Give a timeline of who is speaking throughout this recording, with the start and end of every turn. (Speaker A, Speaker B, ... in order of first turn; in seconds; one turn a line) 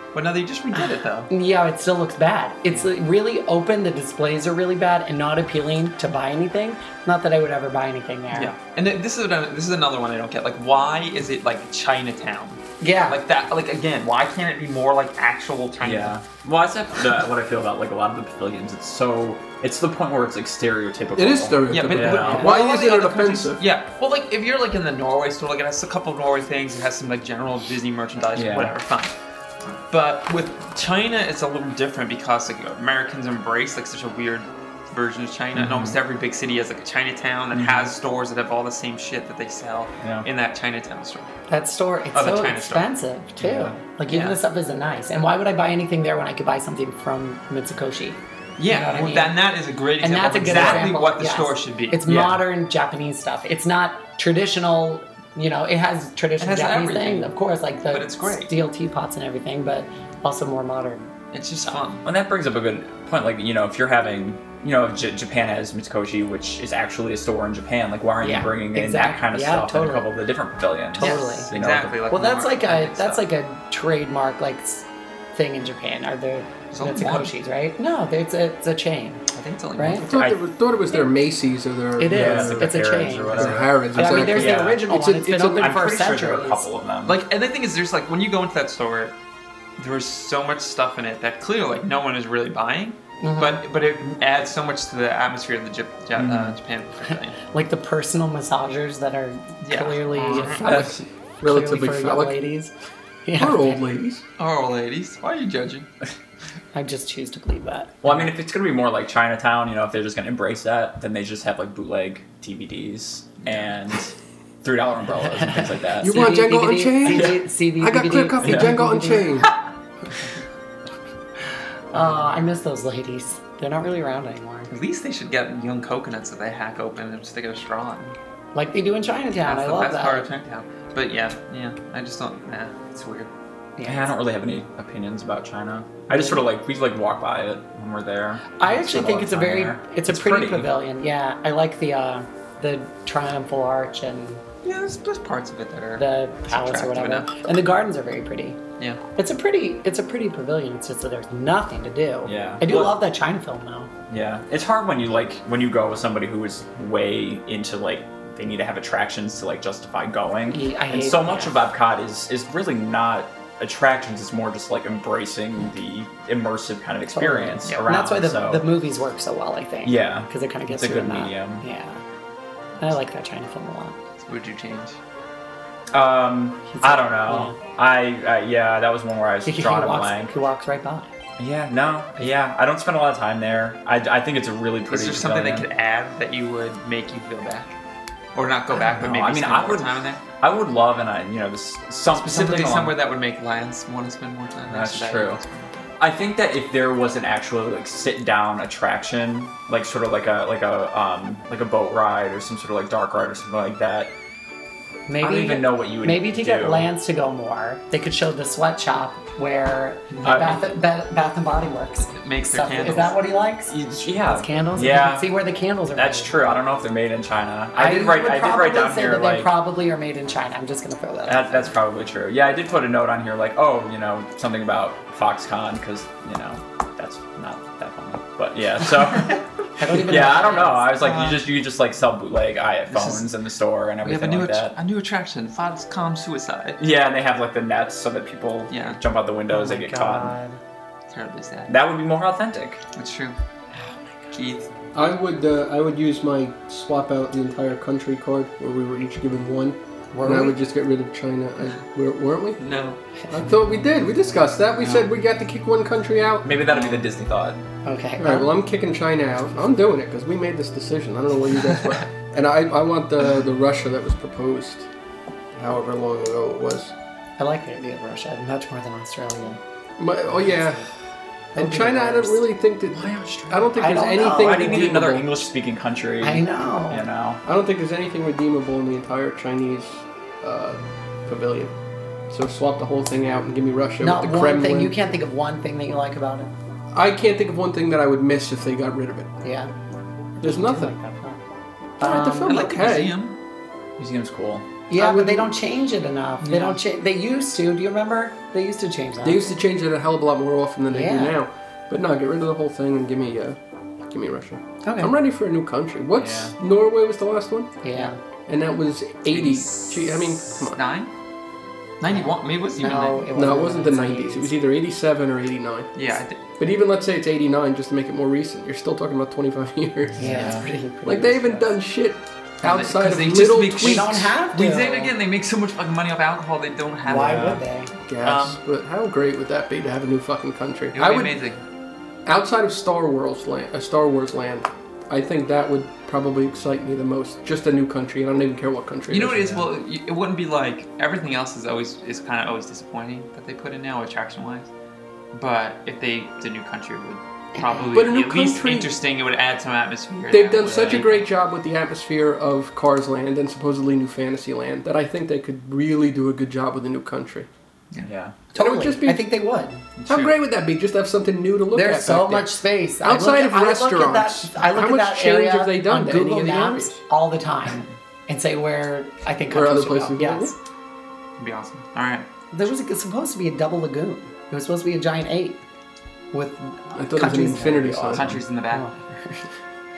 Speaker A: 0.1-1.3
Speaker B: 0.8-8.5
Speaker A: 8.3-16.2
Speaker B: 12.8-13.2
Speaker C: 15.8-22.5
Speaker D: 21.1-23.6
Speaker A: 21.7-29.1
Speaker B: 22.2-22.6
Speaker C: 28.3-28.7
Speaker A: 29.9-41.3
Speaker C: 35.5-36.0
Speaker C: 37.5-37.9
Speaker C: 40.0-40.3
Speaker B: 41.5-49.4
Speaker A: 42.1-42.9
Speaker C: 43.4-43.8
Speaker A: 44.1-44.4
Speaker A: 48.6-52.3
Speaker B: 50.0-61.1
Speaker C: 52.1-52.4
Speaker A: 56.4-57.3
Speaker A: 57.9-58.5
Speaker A: 61.3-62.1
Speaker C: 62.0-72.0
Speaker B: 68.2-70.1
Speaker B: 70.9-71.5
Speaker A: 71.0-73.2
Speaker B: 72.1-79.2
Speaker A: 76.7-77.3
Speaker A: 79.3-80.1
Speaker B: 79.8-80.0
Speaker D: 80.0-82.8
Speaker C: 80.1-80.4
Speaker B: 82.0-86.7
Speaker C: 82.1-84.8
Speaker D: 83.3-85.7
Speaker C: 85.6-87.2
Speaker A: 87.1-89.2
Speaker A: 89.8-97.4
Speaker B: 93.2-93.6
Speaker C: 96.2-96.6
Speaker B: 97.5-102.7
Speaker A: 99.6-100.8
Speaker D: 100.4-102.4
Speaker B: 103.3-103.8
Speaker D: 103.4-104.2
Speaker A: 104.4-105.9
Speaker B: 106.7-108.0
Speaker C: 108.0-116.3
Speaker A: 113.4-113.7
Speaker B: 115.4-119.4
Speaker D: 116.0-119.5
Speaker C: 117.1-117.4
Speaker C: 118.4-118.7
Speaker B: 121.9-124.7
Speaker A: 124.7-128.2
Speaker B: 128.6-130.3
Speaker A: 129.4-133.3
Speaker B: 133.8-134.1
Speaker C: 133.8-140.7
Speaker B: 136.1-136.4
Speaker B: 138.6-144.4
Speaker A: 144.6-147.3
Speaker B: 146.0-148.6
Speaker B: 149.2-153.9
Speaker C: 152.2-152.9
Speaker C: 154.1-168.7
Speaker B: 160.5-161.6
Speaker B: 167.1-172.0
Speaker C: 169.8-171.6
Speaker B: 172.8-174.0
Speaker A: 174.2-175.0
Speaker C: 175.9-180.3
Speaker B: 176.7-177.6
Speaker B: 179.4-181.1
Speaker C: 181.4-185.7
Speaker A: 184.9-187.8
Speaker A: 188.3-190.2
Speaker C: 188.8-192.9
Speaker A: 192.1-195.8
Speaker C: 194.7-195.4
Speaker C: 196.0-204.1
Speaker B: 205.1-213.7
Speaker C: 205.2-206.9
Speaker A: 210.1-210.5
Speaker C: 210.2-210.7
Speaker A: 212.1-213.1
Speaker C: 213.7-215.3
Speaker B: 214.3-216.3
Speaker C: 215.9-219.5
Speaker B: 217.8-221.7
Speaker C: 221.3-234.7
Speaker B: 229.8-231.2
Speaker A: 231.1-231.4
Speaker A: 232.9-233.3
Speaker A: 234.0-236.8
Speaker C: 236.8-240.3
Speaker A: 238.7-239.0
Speaker B: 239.5-240.6
Speaker A: 241.1-241.7
Speaker C: 241.7-242.8
Speaker A: 242.9-243.4
Speaker B: 243.8-244.3
Speaker A: 244.3-244.7
Speaker D: 244.9-252.6
Speaker B: 250.1-250.6
Speaker A: 252.6-253.0
Speaker D: 253.3-256.5
Speaker C: 256.4-257.6
Speaker A: 256.7-257.0
Speaker B: 257.9-258.5
Speaker D: 258.2-264.9
Speaker D: 265.6-266.9
Speaker B: 267.4-269.6
Speaker D: 270.0-270.9
Speaker B: 271.6-272.5
Speaker D: 271.6-275.3
Speaker C: 272.9-277.4
Speaker B: 273.8-274.9
Speaker B: 276.2-277.1
Speaker D: 277.4-281.8
Speaker D: 282.3-284.9
Speaker B: 284.0-286.5
Speaker D: 286.9-289.3
Speaker B: 289.4-289.7
Speaker B: 290.4-291.4
Speaker D: 290.4-290.9
Speaker B: 292.0-292.6
Speaker D: 292.0-293.1
Speaker A: 292.5-293.4
Speaker C: 294.0-294.7
Speaker B: 294.9-299.5
Speaker D: 294.9-295.5
Speaker A: 296.4-296.8
Speaker D: 299.2-307.7
Speaker B: 300.9-301.4
Speaker B: 304.8-305.1
Speaker C: 306.2-306.6
Speaker B: 307.8-308.2
Speaker D: 308.5-310.8
Speaker A: 309.3-309.8
Speaker A: 310.6-311.1
Speaker A: 312.0-313.3
Speaker B: 312.1-314.5
Speaker D: 313.3-315.9
Speaker A: 316.0-316.5
Speaker D: 316.6-324.3
Speaker B: 320.2-321.7
Speaker C: 320.2-320.7
Speaker A: 322.6-327.6
Speaker B: 323.8-325.1
Speaker B: 327.1-327.9
Speaker D: 328.1-331.4
Speaker A: 328.2-328.6
Speaker A: 330.9-331.6
Speaker D: 332.3-339.6
Speaker A: 339.1-344.7
Speaker A: 345.3-351.2
Speaker B: 347.6-348.0
Speaker D: 347.9-348.9
Speaker D: 350.3-357.5
Speaker C: 358.0-358.4
Speaker B: 358.5-359.9
Speaker D: 358.6-359.2
Speaker A: 360.0-360.3
Speaker D: 360.1-367.0
Speaker B: 361.7-370.6
Speaker D: 369.5-370.5
Speaker A: 371.4-372.3
Speaker B: 372.5-375.6
Speaker B: 376.3-378.2
Speaker D: 376.9-378.4
Speaker C: 378.1-378.4
Speaker A: 378.1-378.9
Speaker B: 378.7-379.5